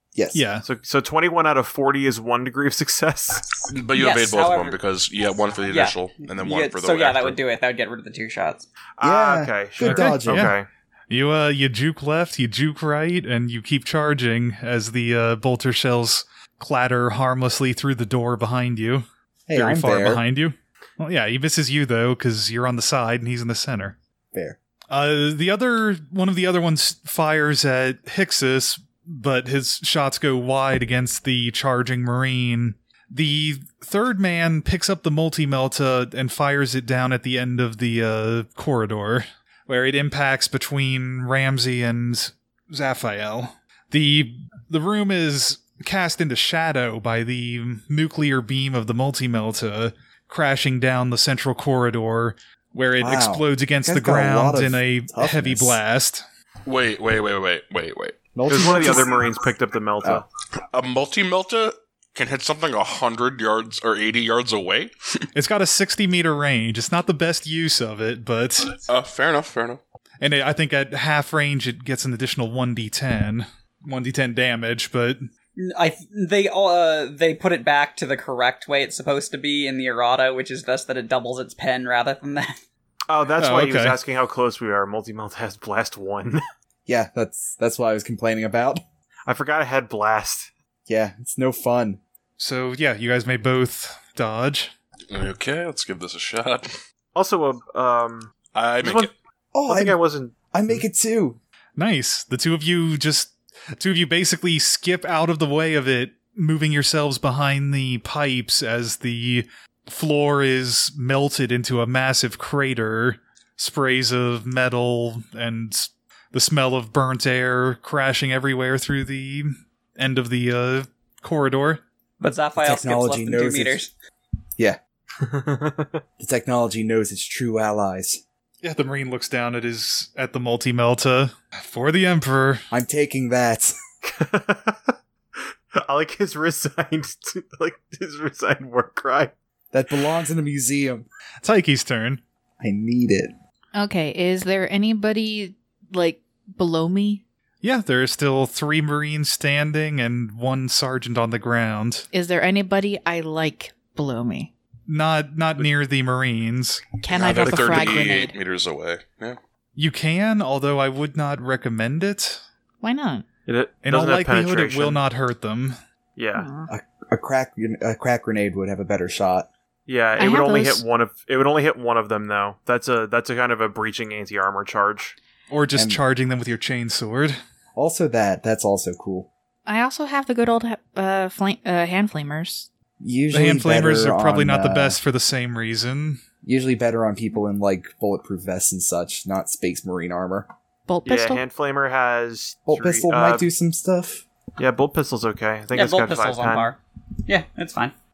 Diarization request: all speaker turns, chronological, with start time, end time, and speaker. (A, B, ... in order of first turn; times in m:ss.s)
0:00.1-0:00.4 A
0:00.3-0:00.7 B
0:00.7-0:03.6 C
0:03.7-0:07.4 D
0:04.0-0:04.8 E
0:05.7-0:08.7 E
0:09.0-0:10.7 C
0:09.0-0:10.5 A
0:09.8-0:10.6 B
0:11.1-0:24.0 B
0:19.5-0:20.2 A
0:24.3-0:24.6 A
0:24.9-0:56.2 B
0:53.0-0:55.8 A
0:56.7-0:58.2 D
0:58.4-0:59.2 A
0:58.5-1:00.3 C
1:00.7-1:05.3 D
1:05.3-1:08.8 B
1:08.9-1:09.8 D
1:10.2-1:15.2 B
1:15.6-1:22.6 E
1:23.1-1:26.4 C
1:23.4-1:24.0 B
1:26.9-1:28.8 A
1:29.3-1:30.5 C
1:30.9-1:32.0 A
1:32.4-1:34.7 B
1:35.1-1:36.8 D
1:37.1-1:39.1 C
1:38.5-1:39.1 D
1:39.5-1:40.0 A
1:39.7-1:40.3 C
1:40.5-1:41.4 A
1:41.8-2:01.8 B
2:02.2-2:03.9 E
2:02.6-2:03.8 A
2:05.2-2:06.0 C
2:06.2-2:08.2 A
2:08.6-2:12.6 B
2:12.7-2:13.8 A
2:14.0-2:14.9 C
2:15.7-2:19.3 C
2:19.7-2:21.1 A
2:21.4-2:22.2 B
2:22.6-2:23.3 A
2:23.7-2:27.2 F
2:27.6-2:32.0 B
2:32.1-2:34.5 F
2:34.9-2:38.0 B
2:37.0-2:38.3 F
2:37.1-2:39.4 D
2:39.8-2:42.4 B
2:42.8-2:43.2 F
2:43.5-2:45.0 C
2:43.8-2:45.8 B
2:46.2-2:46.5 C
2:46.4-2:46.7 F
2:46.7-2:49.5 A
2:49.9-2:55.2 C
2:50.2-2:50.8 F
2:55.5-2:57.4 B
2:55.7-2:56.0 A
2:57.7-2:59.3 A
2:59.7-3:02.7 F
3:03.0-3:05.0 A
3:03.3-3:06.2 B
3:06.4-3:10.5 A
3:10.9-3:11.4 F
3:11.0-3:13.4 C
3:12.7-3:14.2 A
3:14.6-3:16.7 C
3:15.7-3:17.9 E